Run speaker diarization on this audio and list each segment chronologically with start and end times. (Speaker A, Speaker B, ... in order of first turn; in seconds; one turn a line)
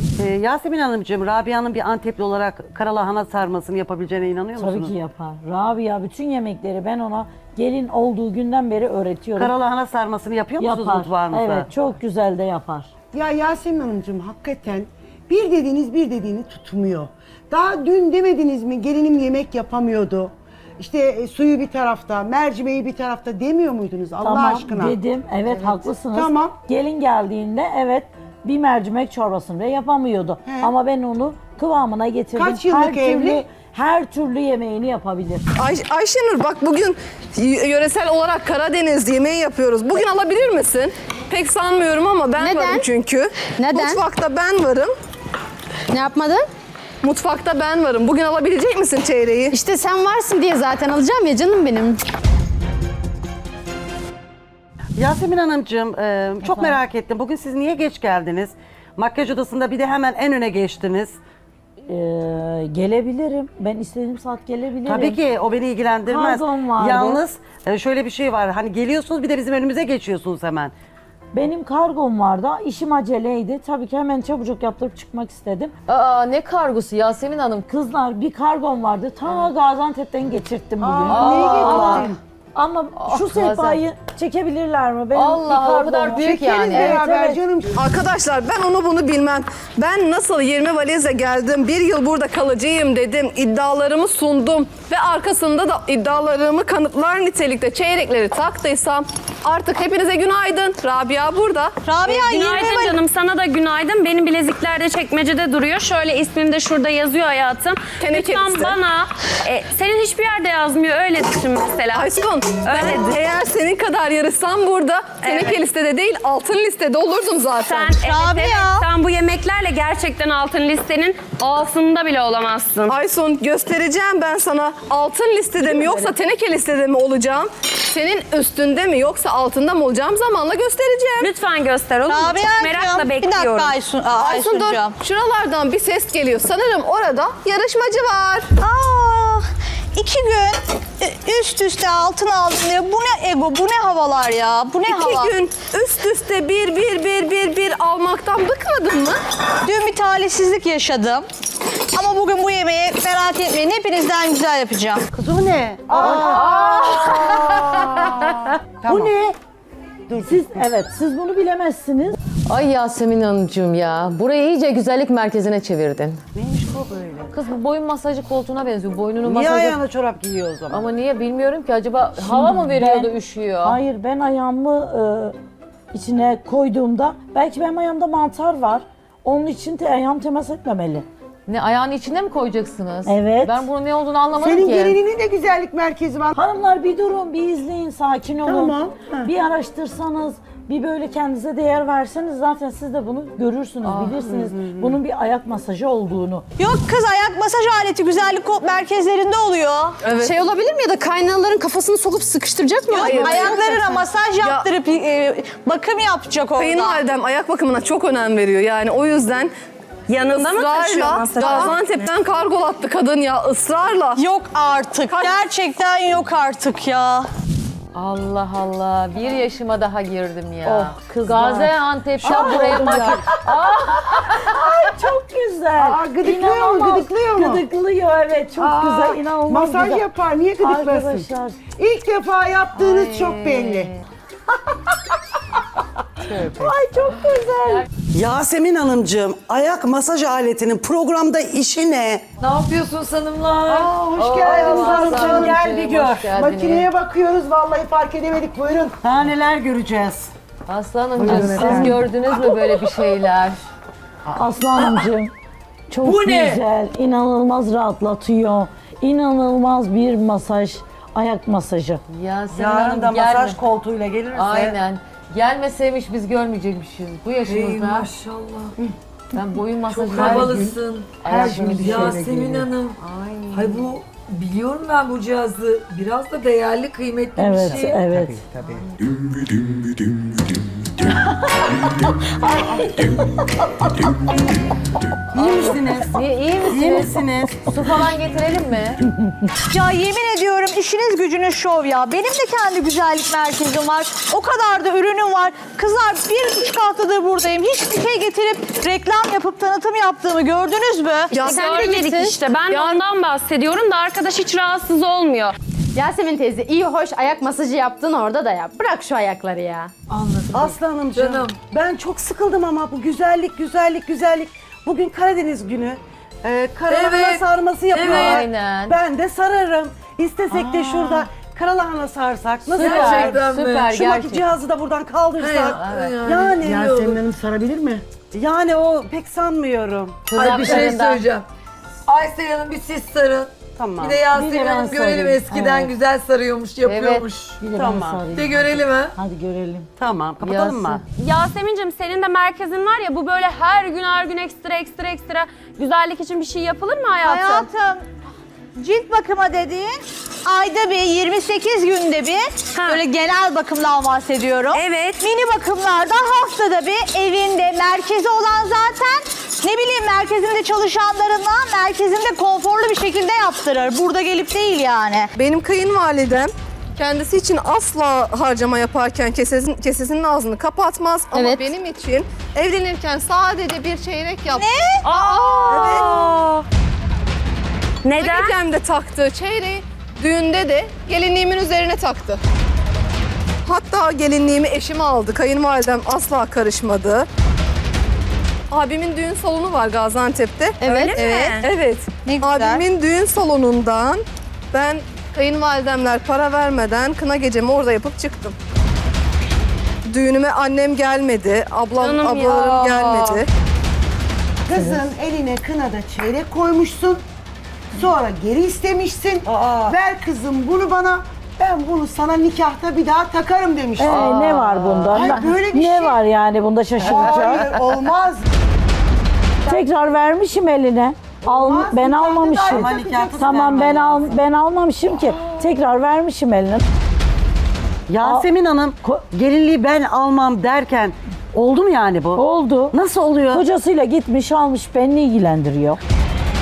Speaker A: 0.2-4.9
Speaker B: 4.6-9.5
Speaker A: 9.4-11.7
Speaker B: 10.6-12.9
Speaker C: 13.1-25.0
Speaker B: 24.2-35.5
Speaker C: 26.1-26.6
Speaker C: 30.4-30.7
Speaker C: 32.4-33.4
Speaker D: 35.6-44.9
Speaker E: 42.4-42.9
Speaker E: 43.5-44.0
Speaker E: 45.9-46.5
Speaker D: 47.0-49.5
Speaker E: 49.5-52.0
Speaker A: 55.0-61.1
Speaker B: 61.9-65.2
Speaker A: 64.9-70.7
Speaker B: 66.1-67.2
Speaker B: 71.3-75.7
Speaker F: 75.9-77.7
Speaker B: 77.7-87.4
Speaker C: 80.8-82.2
Speaker F: 81.1-82.1
Speaker F: 83.0-83.8
Speaker F: 85.1-87.0
Speaker C: 86.1-87.8
Speaker D: 87.8-101.7
Speaker G: 101.8-103.0
Speaker H: 102.1-113.2
Speaker D: 108.0-108.8
Speaker D: 111.9-118.0
Speaker H: 115.2-115.6
Speaker H: 117.7-123.0
Speaker G: 117.8-118.9
Speaker D: 122.9-131.3
Speaker H: 131.2-133.8
Speaker G: 132.1-135.0
Speaker D: 134.2-138.5
Speaker G: 138.6-145.3
Speaker D: 144.8-149.2
Speaker G: 149.7-151.3
Speaker G: 151.9-155.1
Speaker A: 155.2-156.5
Speaker C: 155.9-159.1
Speaker F: 156.1-157.4
Speaker B: 158.9-159.4
Speaker C: 160.1-160.4
Speaker B: 160.2-162.2
Speaker F: 162.5-166.2
Speaker A: 166.3-167.3
Speaker F: 167.3-169.8
Speaker A: 169.2-170.8
Speaker F: 170.7-173.8
Speaker B: 172.2-175.4
Speaker B: 175.9-181.1
Speaker F: 181.5-185.0
Speaker B: 183.1-183.7
Speaker C: 184.4-186.3
Speaker B: 186.4-196.5
Speaker C: 188.4-189.3
Speaker F: 193.8-194.2
Speaker G: 196.6-200.0
Speaker D: 200.0-200.4
Speaker E: 200.2-203.5
Speaker G: 202.9-207.0
Speaker D: 202.9-204.7
Speaker D: 206.6-209.5
Speaker H: 210.1-212.1
Speaker D: 210.3-214.2
Speaker G: 214.2-217.3
Speaker D: 215.1-215.4
Speaker F: 217.9-224.7
Speaker B: 220.6-230.1
Speaker C: 222.2-223.2
Speaker C: 225.8-227.6
Speaker C: 228.6-233.9
Speaker B: 230.6-231.6
Speaker F: 232.8-234.0
Speaker B: 236.6-237.9
Speaker A: 238.1-242.2
Speaker I: 242.4-244.0
Speaker C: 243.7-249.0
Speaker F: 244.2-246.9
Speaker A: 244.5-246.3
Speaker I: 244.9-245.5
Speaker A: 249.0-250.3
Speaker F: 250.7-253.6
Speaker C: 251.2-251.9
Speaker A: 251.3-251.9
Speaker I: 251.3-251.8
Speaker B: 254.3-255.3
Speaker B: 255.9-262.0
Speaker A: 256.0-256.6
Speaker F: 262.1-263.6
Speaker A: 262.5-264.8
Speaker F: 264.3-268.1
Speaker I: 267.5-268.8
Speaker F: 269.3-270.7
Speaker I: 269.9-273.0
Speaker A: 270.2-270.7
Speaker F: 271.2-272.2
Speaker A: 271.3-273.7
Speaker I: 273.5-278.0
Speaker B: 277.4-278.4
Speaker B: 281.1-283.6
Speaker A: 285.3-287.6
Speaker F: 285.4-289.0
Speaker G: 289.7-301.6
Speaker D: 301.3-302.0
Speaker H: 301.3-305.6
Speaker E: 301.4-302.3
Speaker D: 302.7-303.0
Speaker E: 305.9-309.9
Speaker I: 310.1-311.6
Speaker A: 310.5-327.2
Speaker I: 316.9-318.5
Speaker F: 318.0-319.0
Speaker F: 322.7-324.5
Speaker I: 322.7-323.9
Speaker I: 325.4-326.6
Speaker F: 325.7-326.1
Speaker C: 326.6-328.0
Speaker A: 328.3-330.2
Speaker F: 330.3-331.2
Speaker I: 330.4-331.4
Speaker B: 330.6-330.9
Speaker I: 332.1-337.6
Speaker A: 333.8-334.2
Speaker B: 334.3-335.8
Speaker F: 336.8-337.3
Speaker B: 337.6-339.9
Speaker A: 337.8-338.2
Speaker I: 338.3-339.1
Speaker A: 340.0-341.0
Speaker F: 340.4-341.0
Speaker H: 341.1-347.7
Speaker G: 347.2-348.1
Speaker G: 348.8-365.3
Speaker H: 352.8-353.0
Speaker H: 354.7-355.2
Speaker D: 365.4-376.3
Speaker G: 374.5-375.1
Speaker H: 375.0-376.5
Speaker A: 375.7-376.0
Speaker H: 378.0-378.6
Speaker D: 378.2-382.4
Speaker D: 383.6-387.2
Speaker D: 388.7-390.8
Speaker E: 390.8-391.6
Speaker H: 390.8-391.6
Speaker G: 391.1-391.5
Speaker D: 391.6-398.6
Speaker G: 392.1-392.8
Speaker D: 400.1-403.5
Speaker H: 402.0-403.4
Speaker C: 404.7-407.2
Speaker B: 404.8-405.0
Speaker C: 407.9-414.4
Speaker A: 409.5-410.0
Speaker B: 414.0-417.7
Speaker F: 414.1-415.1
Speaker C: 415.1-416.2
Speaker C: 417.0-418.5
Speaker B: 419.7-426.8
Speaker C: 421.5-423.8
Speaker A: 422.6-424.3
Speaker A: 428.1-433.6
Speaker B: 432.4-432.9
Speaker B: 433.5-436.0